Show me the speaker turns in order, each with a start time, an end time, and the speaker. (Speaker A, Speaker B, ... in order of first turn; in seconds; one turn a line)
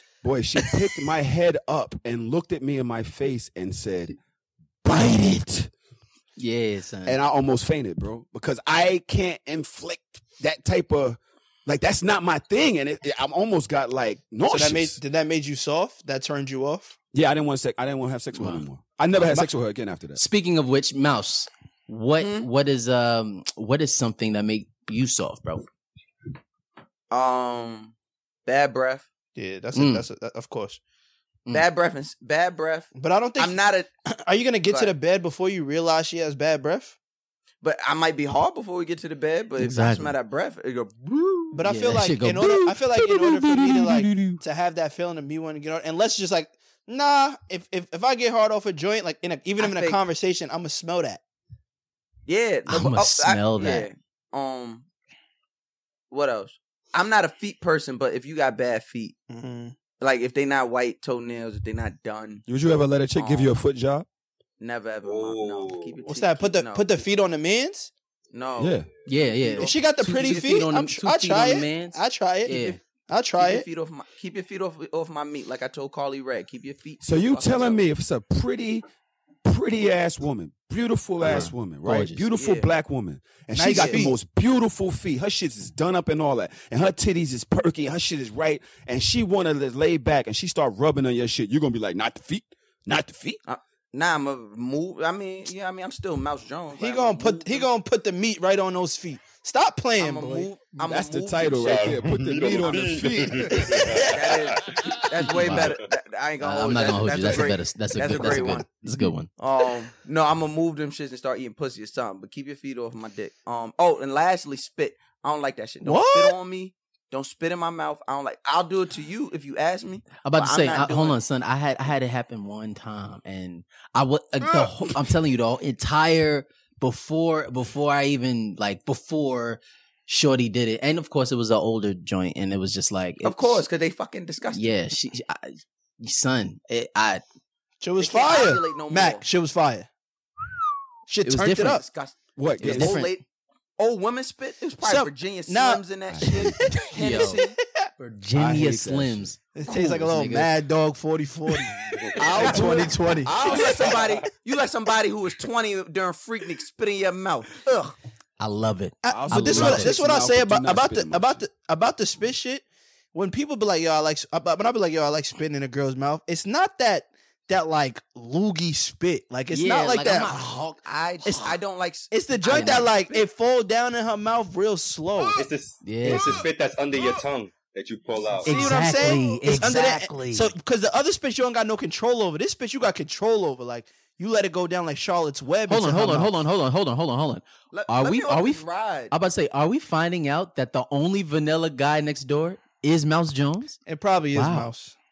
Speaker A: 0.2-4.2
Speaker A: 4.8-5.7
Speaker B: 6.4-7.2
Speaker A: 7.0-15.0
Speaker C: 14.5-16.9
Speaker A: 17.1-20.2
Speaker B: 18.3-18.6
Speaker C: 19.2-19.5
Speaker B: 20.1-25.6
Speaker D: 22.2-22.5
Speaker D: 27.1-27.9
Speaker D: 28.4-29.1
Speaker C: 29.4-30.8
Speaker B: 29.7-30.0
Speaker D: 31.5-33.9
Speaker C: 32.9-33.6
Speaker C: 34.1-36.9
Speaker D: 34.7-34.9
Speaker D: 37.6-41.6
Speaker B: 39.6-40.1
Speaker C: 41.5-51.2
Speaker B: 41.6-44.4
Speaker D: 49.6-50.0
Speaker D: 52.3-54.8
Speaker B: 52.7-53.9
Speaker D: 56.1-59.1
Speaker C: 59.3-59.7
Speaker D: 60.0-62.4
Speaker A: 62.5-64.1
Speaker D: 63.1-63.5
Speaker D: 64.6-67.0
Speaker E: 65.0-66.0
Speaker C: 66.0-67.9
Speaker D: 68.3-70.5
Speaker A: 68.6-68.9
Speaker B: 69.1-72.8
Speaker C: 69.6-73.7
Speaker D: 72.5-72.7
Speaker D: 73.4-77.8
Speaker A: 77.0-78.8
Speaker A: 79.4-93.4
Speaker B: 81.2-82.3
Speaker D: 82.3-82.7
Speaker C: 83.5-84.1
Speaker D: 83.7-84.1
Speaker D: 93.4-97.7
Speaker C: 96.7-100.5
Speaker D: 100.0-101.9
Speaker A: 100.8-104.0
Speaker E: 101.6-104.8
Speaker C: 103.6-104.1
Speaker D: 104.1-108.7
Speaker B: 105.3-105.7
Speaker B: 106.4-109.3
Speaker D: 109.4-121.2
Speaker C: 115.8-116.3
Speaker B: 120.2-133.6
Speaker D: 133.2-134.7
Speaker B: 134.5-137.2
Speaker C: 137.8-139.9
Speaker D: 138.0-139.2
Speaker C: 141.1-141.8
Speaker B: 141.2-141.8
Speaker D: 141.6-143.2
Speaker A: 142.4-143.0
Speaker B: 142.6-143.2
Speaker D: 143.8-147.5
Speaker C: 144.8-147.8
Speaker A: 146.1-146.8
Speaker B: 146.9-147.4
Speaker B: 148.0-150.5
Speaker A: 148.3-149.3
Speaker C: 149.6-153.6
Speaker A: 152.3-154.0
Speaker D: 153.2-157.9
Speaker E: 153.6-153.9
Speaker B: 158.4-159.9
Speaker C: 159.0-170.6
Speaker A: 159.1-161.4
Speaker B: 169.5-170.8
Speaker D: 170.8-173.2
Speaker C: 171.2-171.5
Speaker C: 172.1-175.4
Speaker B: 172.5-172.9
Speaker E: 175.3-178.7
Speaker B: 175.8-176.4
Speaker C: 176.0-176.4
Speaker B: 178.4-180.5
Speaker C: 178.4-186.3
Speaker B: 185.7-193.8
Speaker D: 187.7-189.1
Speaker C: 193.9-194.9
Speaker B: 194.3-194.7